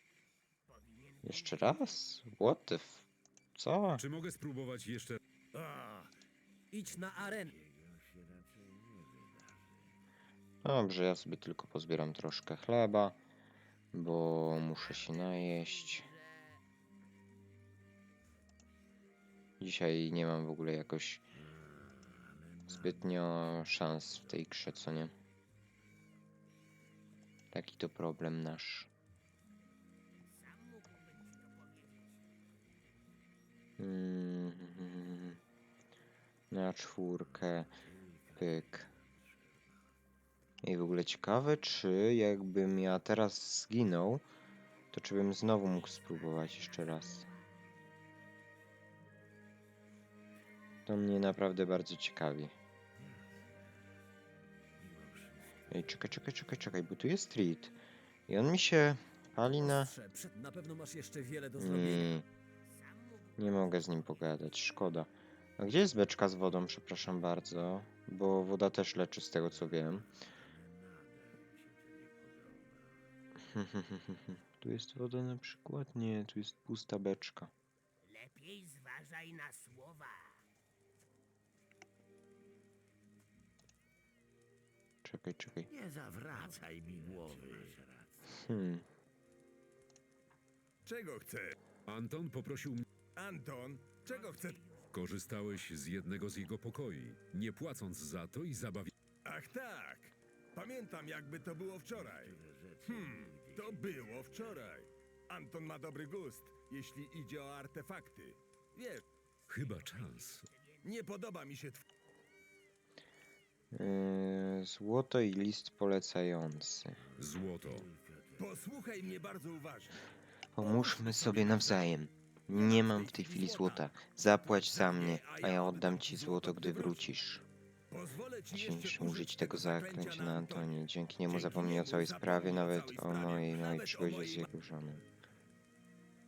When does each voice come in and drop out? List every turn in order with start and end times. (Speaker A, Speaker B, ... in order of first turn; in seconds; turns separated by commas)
Speaker A: 0.7-2.0, Speaker B: 1.2-4.0, Speaker C: 3.9-5.2, Speaker D: 5.5-6.1, Speaker D: 6.7-7.5, Speaker A: 7.5-9.5, Speaker B: 10.6-13.2, Speaker B: 13.9-16.1, Speaker A: 14.6-16.6, Speaker B: 19.6-21.2, Speaker A: 22.2-22.6, Speaker B: 22.6-25.1, Speaker B: 27.5-28.9, Speaker A: 30.3-32.2, Speaker B: 33.8-35.4, Speaker B: 36.5-37.8, Speaker A: 37.9-38.2, Speaker B: 38.3-38.9, Speaker B: 40.6-44.2, Speaker B: 44.9-47.3, Speaker A: 45.5-47.5, Speaker B: 50.9-52.5, Speaker B: 55.7-57.8, Speaker B: 58.3-59.9, Speaker D: 59.5-62.2, Speaker B: 61.5-62.2, Speaker A: 62.7-64.5, Speaker B: 63.4-70.2, Speaker A: 72.2-72.5, Speaker B: 73.4-77.5, Speaker A: 78.0-80.4, Speaker B: 85.0-85.7, Speaker A: 85.8-88.0, Speaker E: 87.0-87.7, Speaker B: 88.3-88.8, Speaker E: 90.8-91.5, Speaker C: 91.8-92.8, Speaker E: 93.1-94.6, Speaker A: 94.0-95.4, Speaker C: 94.9-98.9, Speaker E: 99.2-109.1, Speaker A: 102.3-104.1, Speaker A: 109.5-111.0, Speaker C: 109.5-110.5, Speaker E: 110.8-111.8, Speaker B: 113.7-117.0, Speaker C: 117.2-117.9, Speaker A: 117.8-118.3, Speaker E: 118.4-120.0, Speaker B: 120.5-127.4, Speaker E: 120.6-121.9, Speaker E: 122.5-123.8, Speaker E: 124.4-127.0, Speaker E: 127.9-134.5, Speaker B: 128.5-135.0